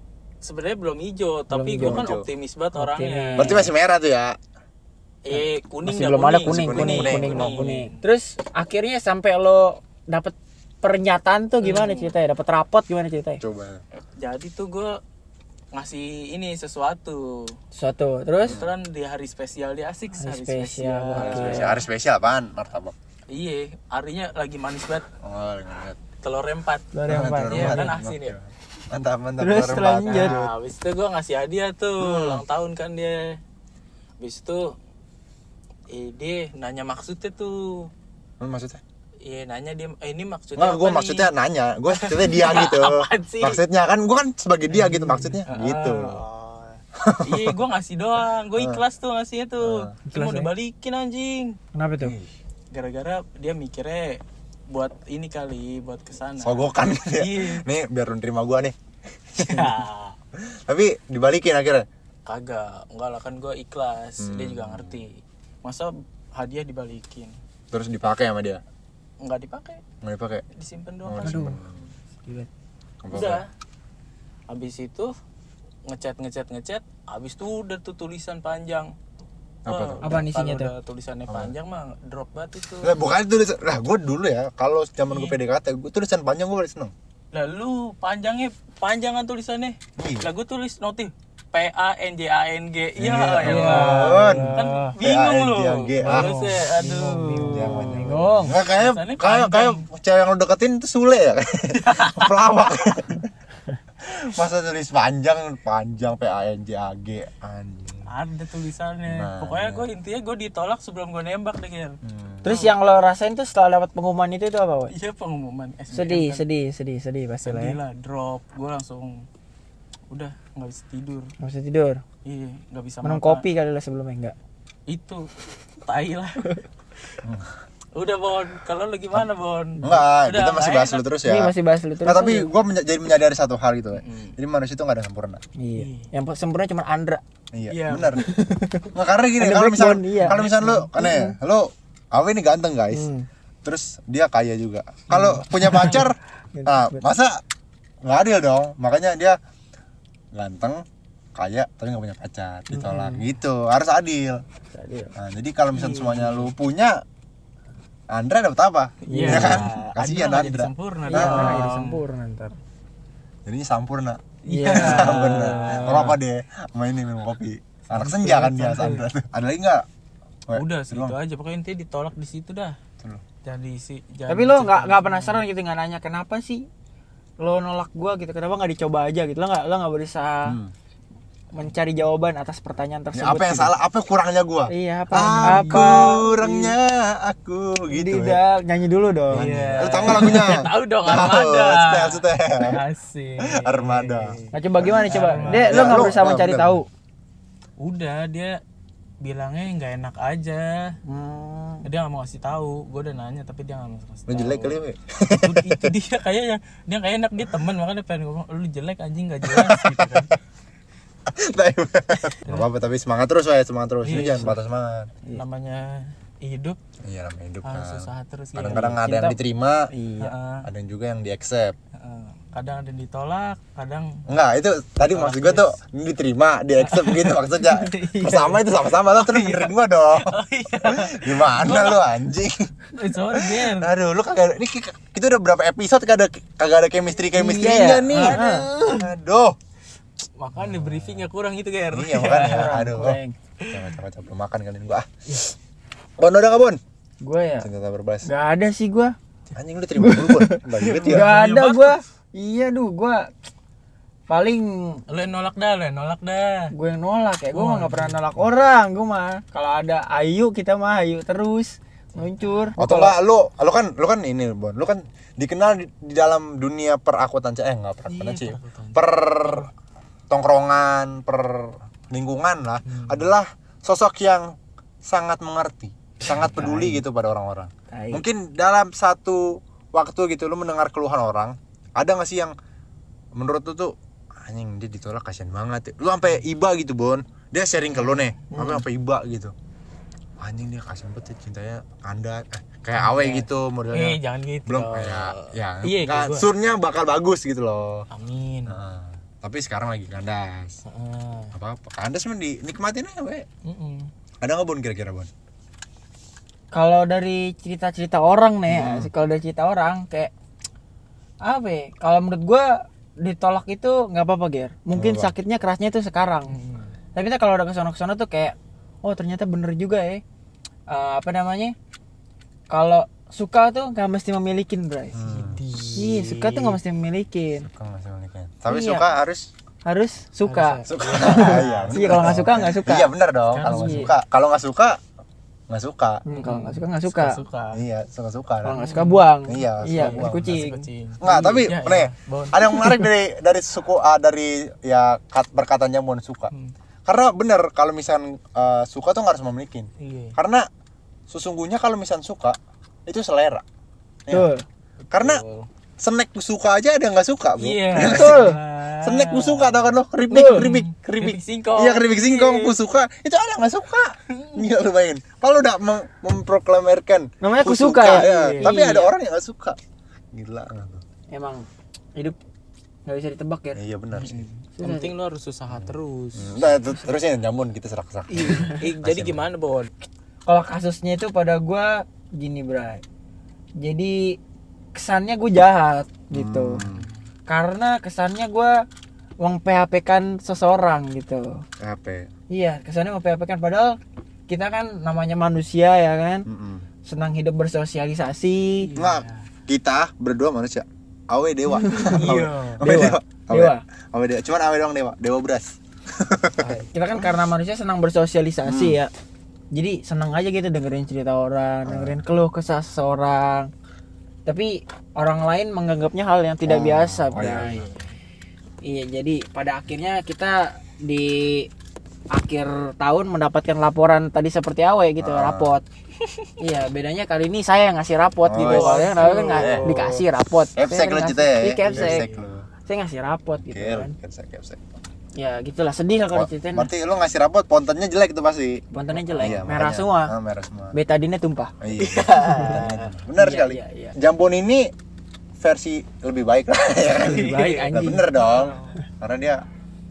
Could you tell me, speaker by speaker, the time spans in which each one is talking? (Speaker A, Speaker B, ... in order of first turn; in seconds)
Speaker A: 0.4-3.6, 5.3-8.0, 11.6-12.1, 14.0-15.0, 15.7-17.6, 18.4-21.8, 23.3-25.1, 26.2-26.9, 27.5-28.4, 30.1-33.4, 34.2-34.7, 35.9-37.9, 39.2-41.3, 41.9-43.6, 45.5-51.6, 52.7-57.6, 59.4-60.2, 62.3-67.4, 69.2-69.8, 70.6-71.5, 73.1-73.5, 74.5-75.1, 75.9-78.9, 79.7-83.0, 85.1-85.4, 87.3-97.9, 98.7-99.8, 101.7-102.4, 108.1-112.8, 114.9-116.4, 117.5-119.2, 120.1-121.3, 122.2-123.4, 124.9-125.3, 125.9-126.5, 128.0-131.1, 134.0-134.3, 135.8-136.1, 137.7-138.3, 140.2-140.9, 145.6-146.0, 155.7-156.5, 159.1-162.0, 164.5-166.2, 167.9-169.0, 170.5-172.8, 173.4-175.4, 185.4-186.5, 189.3-194.5, 195.1-196.2, 197.8-198.6, 199.2-201.0, 201.8-204.8, 205.3-210.4, 214.0-214.6, 215.3-216.8, 217.6-219.0, 220.2-220.7, 222.0-224.2, 225.0-225.7, 226.8-232.0, 233.0-233.9, 238.2-239.1, 240.4-242.9, 243.6-243.9, 250.8-252.0, 255.1-256.7, 257.5-258.2, 262.1-262.7, 268.1-269.7, 272.9-273.3, 276.3-276.9, 287.9-288.8, 292.9-296.5, 298.1-298.7, 300.9-301.5, 303.6-304.1, 316.5-316.9, 325.3-326.8, 330.5-332.5, 333.5-334.1, 336.4-337.8, 338.8-339.2, 339.8-343.1, 350.0-350.4, 355.0-355.7, 357.6-362.8, 364.3-364.6, 368.0-368.9, 374.1-376.8, 378.3-379.9, 386.9-387.2, 398.8-399.5, 402.0-402.8, 406.6-406.9, 417.4-418.1, 428.6-430.2, 431.9-432.4, 439.3-439.7, 442.0-443.1, 447.1-448.9
Speaker B: 1.5-2.1, 2.8-3.7, 5.3-13.4, 17.7-18.6, 20.2-21.7, 26.9-27.9, 29.4-30.4, 44.7-45.4, 50.1-50.5, 51.8-52.1, 71.2-71.6, 80.0-80.7, 93.4-95.0, 96.0-98.5, 112.4-114.9, 115.9-117.8, 121.4-122.0, 123.0-124.3, 131.2-132.5, 135.6-137.2, 138.3-141.3, 142.9-143.3, 145.1-146.0, 146.5-147.1, 152.7-153.2, 154.7-155.1, 159.1-159.7, 161.1-162.6, 164.5-166.1, 174.3-176.7, 177.4-180.6, 181.6-183.7, 184.7-186.6, 187.9-189.4, 194.5-196.9, 201.1-201.8, 219.0-219.4, 219.9-220.3, 237.3-238.7, 242.2-243.3, 247.2-247.7, 248.2-249.2, 250.0-253.3, 254.3-255.0, 256.7-263.1, 276.6-277.0, 277.9-278.2, 306.7-310.3, 311.4-316.5, 317.1-320.2, 320.9-321.8, 322.7-325.3, 326.0-327.7, 328.7-329.0, 329.9-333.1, 333.6-334.1, 336.3-337.4, 338.6-340.9, 354.3-354.6, 357.9-358.6, 360.3-360.6, 367.4-369.1, 371.3-371.6, 373.1-373.8, 374.8-375.1, 380.5-383.0, 383.8-384.4, 384.9-386.8, 387.5-388.8, 389.4-391.6, 392.5-396.5, 397.1-398.9, 401.8-402.2, 402.8-403.8, 406.6-409.1, 409.7-413.7, 414.5-417.8, 418.8-421.7, 422.3-425.8, 426.6-432.3, 432.9-434.1, 435.4-436.9, 438.9-440.3, 440.9-441.7, 442.4-442.7, 443.4-444.2, 447.2-448.3
Speaker C: 1.8-2.2, 3.4-4.4, 6.5-7.7, 13.4-13.8, 18.4-18.7, 21.2-22.9, 25.2-26.0, 27.1-30.5, 32.0-32.4, 38.4-38.8, 40.6-46.2, 47.0-47.6, 49.6-49.9, 56.4-58.8, 59.3-59.8, 60.7-61.9, 64.2-65.0, 67.7-68.6, 70.0-70.4, 71.0-71.9, 73.0-73.4, 79.7-80.2, 82.8-86.9, 90.0-90.3, 93.0-96.4, 97.4-103.3, 104.0-108.1, 109.1-109.8, 112.0-112.6, 127.2-127.5, 129.8-131.5, 132.1-135.4, 137.5-138.3, 138.9-143.1, 143.6-147.4, 148.1-149.4, 150.3-150.8, 151.4-154.4, 155.2-157.0, 158.1-161.6, 163.5-169.8, 170.5-171.2, 180.5-180.7, 183.1-188.4, 189.3-192.8, 193.4-196.8, 204.3-205.9, 209.5-210.3, 211.3-215.1, 217.1-219.9, 220.7-221.8, 224.3-230.4, 230.9-232.7, 233.4-239.6, 240.6-241.3, 241.9-245.4, 246.2-246.8, 247.6-248.3, 249.6-251.3, 262.8-269.7, 270.3-274.5, 275.0-282.6, 283.4-289.5, 290.4-298.1, 298.7-300.8, 301.5-303.5, 304.4-305.3, 308.7-309.1, 314.9-315.3, 325.1-325.6, 327.6-329.5, 330.9-335.0, 335.7-336.2, 337.7-338.8, 339.5-340.6, 341.2-346.5, 347.1-350.7, 351.3-353.6, 355.1-355.4, 356.0-358.5, 359.0-369.8, 370.3-371.0, 373.8-374.5, 375.7-379.4, 386.3-387.1, 391.8-392.3, 396.5-396.9, 399.0-406.7, 408.6-409.0, 411.9-412.2, 416.6-417.8, 425.2-425.7, 428.4-430.1, 430.8-432.7, 433.6-434.8, 436.3-438.8, 439.4-440.9, 441.8-444.9, 445.6-449.6